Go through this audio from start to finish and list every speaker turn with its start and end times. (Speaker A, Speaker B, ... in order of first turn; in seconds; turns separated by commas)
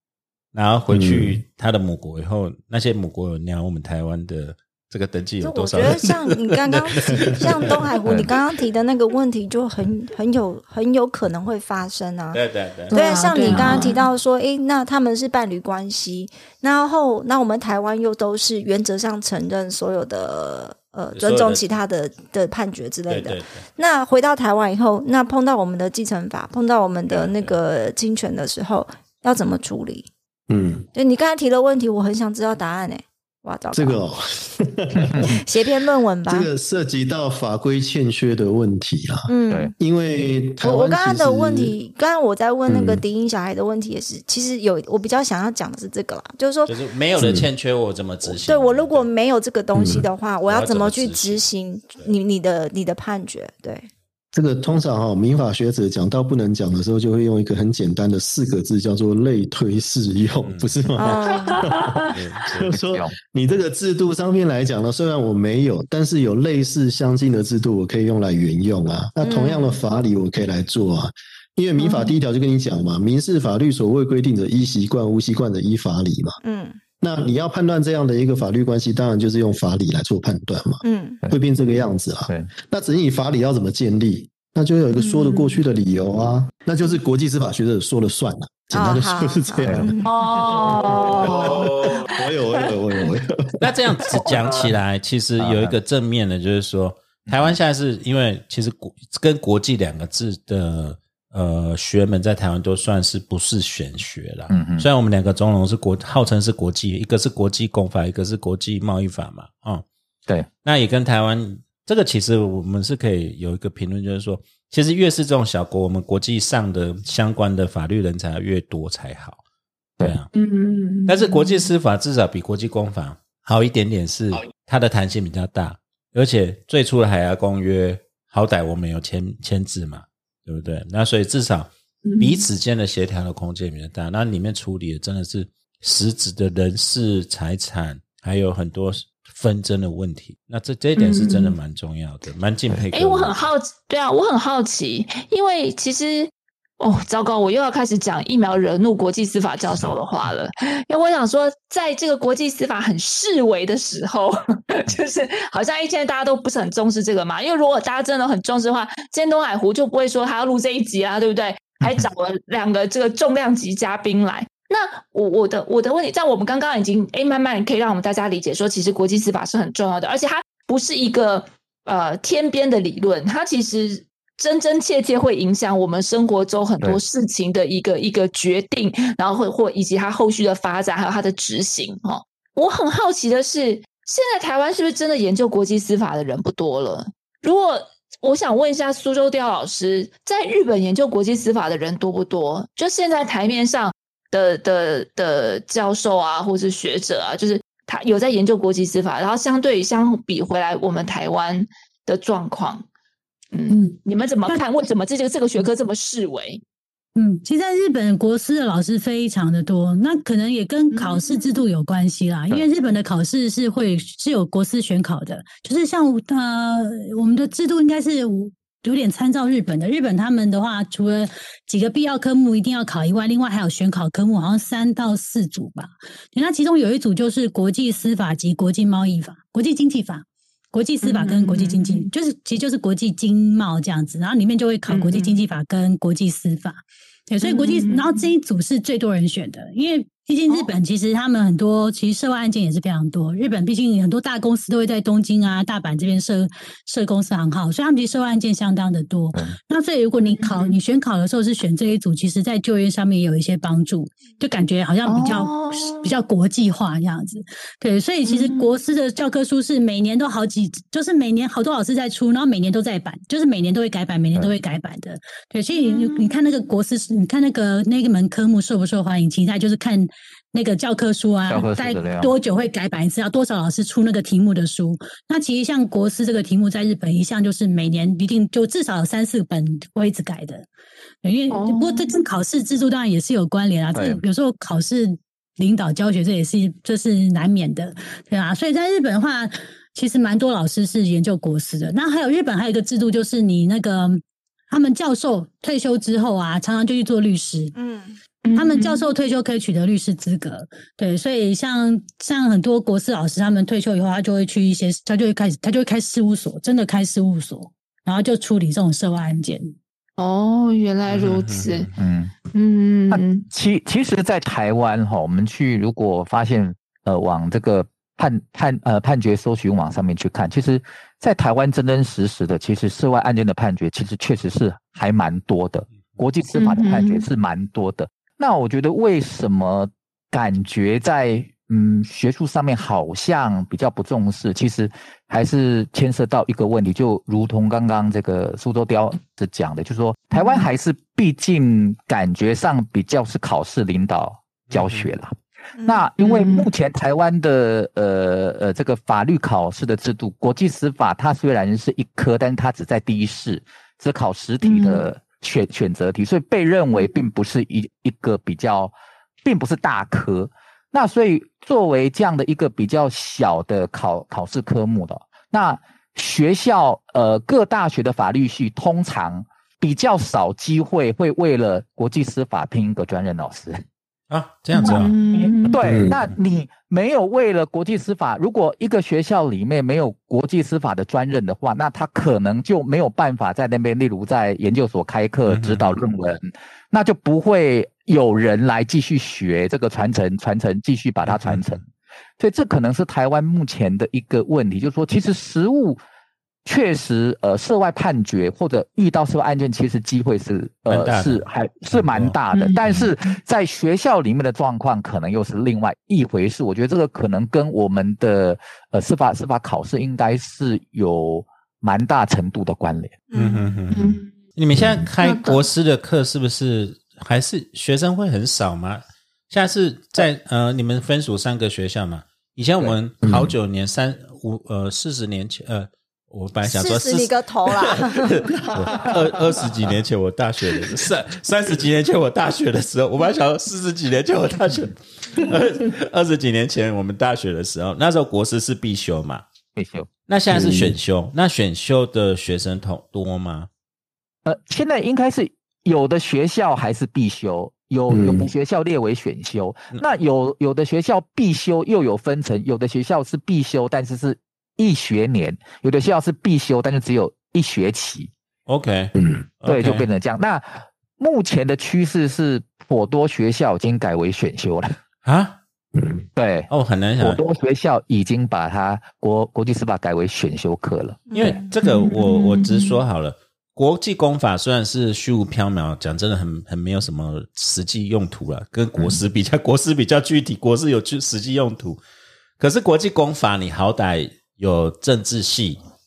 Speaker A: 0.5-7.8, Speaker B: 0.9-1.4, Speaker C: 5.4-12.4, Speaker D: 8.1-8.3, Speaker A: 12.3-13.9, Speaker E: 12.9-13.9, Speaker C: 12.9-30.1, Speaker A: 21.1-21.6, Speaker A: 23.1-23.6, Speaker A: 27.1-27.6, Speaker B: 30.5-30.9, Speaker C: 30.9-34.0, Speaker B: 33.7-35.3, Speaker C: 35.2-36.5, Speaker B: 36.3-41.8, Speaker C: 39.3-39.7, Speaker C: 40.6-46.8, Speaker B: 42.7-43.0, Speaker A: 46.7-49.1, Speaker B: 47.2-47.5, Speaker C: 48.2-53.9, Speaker B: 49.8-50.0, Speaker A: 50.5-51.5, Speaker B: 54.3-76.4, Speaker A: 60.4-60.7, Speaker C: 61.0-61.6, Speaker E: 61.3-62.0, Speaker A: 62.1-62.7, Speaker D: 62.7-63.2, Speaker C: 69.2-69.8, Speaker E: 71.8-72.1, Speaker C: 76.4-76.8, Speaker B: 77.0-93.7, Speaker C: 80.8-81.2, Speaker E: 85.0-85.6, Speaker C: 88.7-90.1, Speaker D: 89.6-89.9, Speaker E: 90.0-92.8, Speaker A: 91.2-92.1, Speaker A: 93.6-109.8, Speaker E: 94.1-94.7, Speaker D: 95.4-95.8, Speaker D: 97.3-97.6, Speaker D: 104.5-104.9, Speaker A: 110.6-119.4, Speaker A: 120.0-120.3, Speaker E: 120.3-121.7, Speaker A: 121.1-143.5, Speaker E: 132.1-132.5, Speaker E: 141.0-141.6, Speaker E: 142.9-202.8, Speaker E: 203.5-206.6, Speaker F: 203.7-204.6, Speaker F: 207.2-280.6, Speaker E: 210.9-211.6, Speaker E: 231.0-232.1, Speaker E: 234.9-235.4, Speaker E: 237.4-238.3, Speaker E: 250.2-250.8, Speaker E: 255.1-256.1, Speaker E: 258.2-258.7, Speaker E: 265.7-266.4, Speaker D: 271.5-272.3, Speaker F: 281.2-297.7, Speaker E: 281.5-282.1, Speaker D: 283.9-284.2, Speaker C: 297.8-298.2, Speaker E: 298.4-299.1, Speaker F: 298.6-309.8, Speaker E: 310.2-311.9, Speaker A: 311.1-311.9, Speaker D: 312.0-312.3, Speaker E: 312.5-313.4, Speaker D: 313.1-358.9, Speaker E: 326.6-327.3, Speaker E: 340.3-340.7, Speaker A: 344.7-345.1, Speaker C: 345.8-346.1, Speaker E: 346.2-346.7, Speaker E: 354.6-355.1, Speaker D: 359.4-373.8, Speaker A: 374.3-375.1, Speaker E: 374.8-375.8, Speaker D: 375.7-391.9, Speaker B: 375.9-376.2, Speaker A: 385.5-385.9, Speaker A: 391.3-391.6, Speaker D: 392.4-396.0, Speaker D: 396.6-413.2, Speaker A: 400.9-402.4, Speaker E: 402.5-403.1, Speaker C: 413.3-413.7, Speaker A: 413.3-439.4, Speaker E: 413.9-414.3, Speaker B: 414.8-415.0, Speaker E: 415.2-415.6, Speaker B: 423.2-423.5, Speaker C: 426.6-428.6, Speaker B: 428.7-429.6, Speaker D: 439.8-440.1, Speaker A: 440.3-443.7, Speaker B: 440.5-440.9, Speaker D: 444.4-458.3, Speaker B: 448.1-448.5, Speaker A: 458.7-460.1, Speaker B: 459.1-459.5, Speaker D: 459.7-465.0, Speaker A: 465.2-465.6, Speaker B: 466.0-466.2, Speaker D: 466.4-471.5, Speaker A: 466.7-467.4, Speaker C: 471.3-471.7, Speaker A: 471.3-482.0, Speaker E: 471.8-473.0, Speaker A: 482.6-485.8